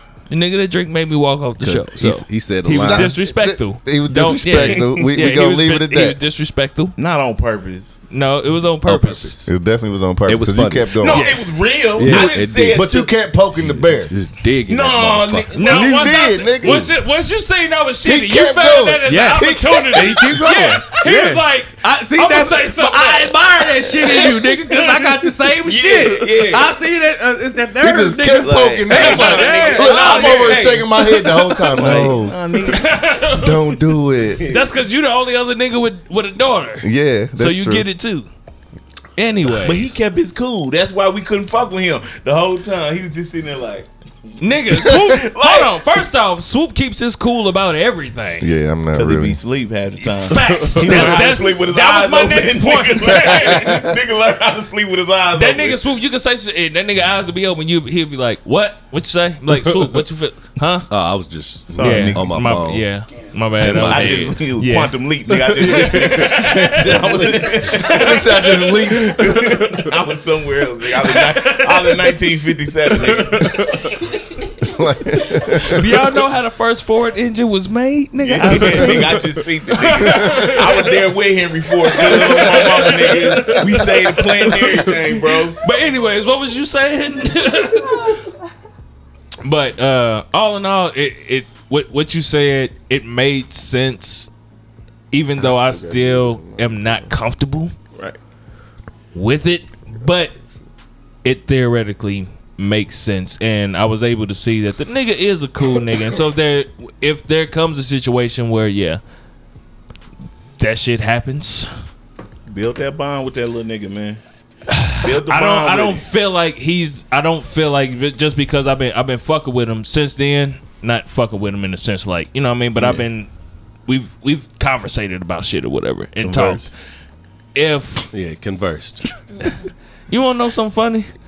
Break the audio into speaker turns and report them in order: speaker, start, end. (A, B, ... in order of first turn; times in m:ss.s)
0:00.3-0:06.9 A
0:01.6-0:03.2 B
0:02.7-0:06.2 C
0:04.5-0:05.2 D
0:07.0-0:08.0 D
0:08.1-0:09.4 A
0:08.8-0:09.4 B
0:09.4-0:11.3 C
0:10.3-0:11.0 B
0:11.0-0:13.1 D
0:11.0-0:11.4 A
0:11.9-0:12.8 B
0:12.0-0:14.1 C
0:13.6-0:15.5 B
0:14.7-0:16.1 D
0:15.5-0:25.3 A
0:15.7-0:16.9 C
0:18.0-0:20.2 C
0:19.0-0:30.7 B
0:25.6-0:26.7 D
0:27.8-0:32.4 C
0:28.3-0:33.0 D
0:29.0-0:29.9 A
0:32.6-0:33.8 A
0:33.3-0:34.4 C
0:34.3-0:34.7 D
0:34.5-0:38.3 A
0:36.8-0:37.9 C
0:39.2-0:40.0 A
0:39.6-0:43.9 D
0:44.4-0:48.5 A
0:44.8-0:45.8 D
0:48.4-0:49.4 C
0:48.9-0:55.8 D
0:50.0-0:53.8 A
0:50.3-0:51.3 B
0:53.4-0:53.8 C
0:55.3-1:00.9 A
1:00.9-1:02.9 B
1:01.7-1:02.5 D
1:01.8-1:04.9 A
1:03.6-1:04.4 B
1:03.6-1:13.7 D
1:05.5-1:06.4 B
1:05.5-1:07.2 A
1:06.3-1:09.4 C
1:07.7-1:09.0 A
1:11.0-1:12.2 A
1:13.2-1:13.9 B
1:14.6-1:16.0 C
1:15.4-1:21.0 A
1:18.2-1:25.6 D
1:18.8-1:19.2 B
1:21.8-1:28.2 A
1:29.4-1:34.3 A
1:35.1-1:37.7 A
1:35.4-1:37.1 C
1:39.1-1:40.3 A
1:41.2-1:49.0 A
1:50.6-1:51.7 A
1:52.5-1:54.2 D
1:54.7-2:03.3 A
1:55.0-1:56.0 D
2:02.8-2:03.0 D
2:03.9-2:06.7 A
2:06.2-2:06.7 D
2:07.5-2:08.1 A
2:08.1-2:09.0 B
2:10.1-2:11.1 A